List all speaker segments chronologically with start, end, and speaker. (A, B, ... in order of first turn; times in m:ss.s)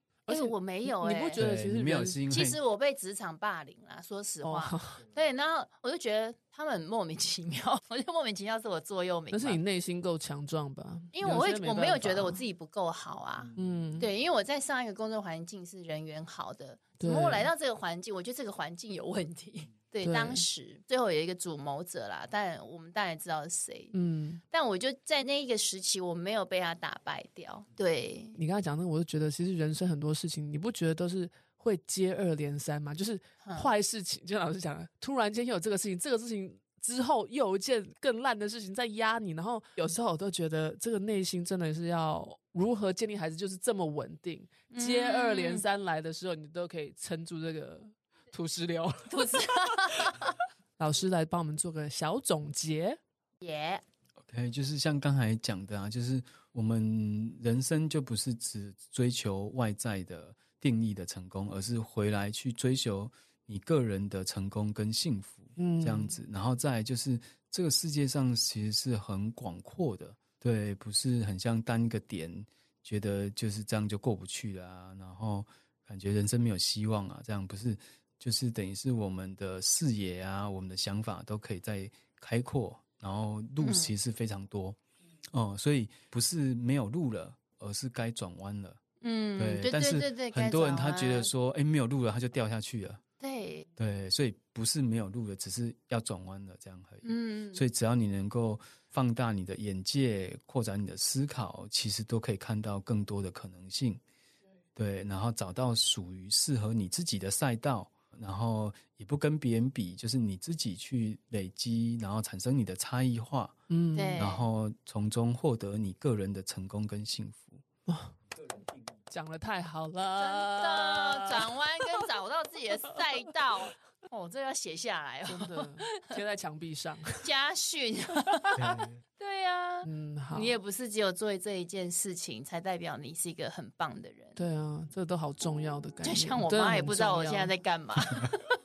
0:00.3-0:02.2 A
0:00.3-0:01.4 B
0:01.4-0:02.6 C
0:02.3-0:09.6 B
0:04.4-0:05.0 A
0:09.3-0:12.4 A
0:11.1-0:23.9 B
0:13.6-0:14.1 A
0:17.0-0:17.5 A
0:20.0-0:20.4 A
0:23.9-0:24.4 A
0:24.5-0:28.4 B
0:28.4-0:49.4 A
0:33.4-0:33.7 B
0:44.7-0:45.6 B
0:49.1-0:50.3 B
0:50.8-0:53.0 A
0:53.4-0:53.8 B
0:54.2-1:24.8 C
1:05.6-1:06.2 A
1:23.6-1:23.9 B
1:25.3-1:28.8 C
1:29.0-1:31.3 B
1:29.4-1:33.0 C
1:33.2-1:33.7 B
1:33.8-1:44.0 C
1:37.0-1:37.6 B
1:44.7-1:53.6 C
1:53.7-1:54.3 A
1:53.9-1:54.5 B
1:54.2-1:57.6 C
1:57.9-1:58.1 A
1:59.1-2:01.5 A
2:00.2-2:06.1 B
2:05.3-2:07.2 A
2:07.2-2:14.4 B
2:08.6-2:09.0 C
2:09.8-2:10.5 A
2:14.4-2:17.5 A
2:16.0-2:18.4 B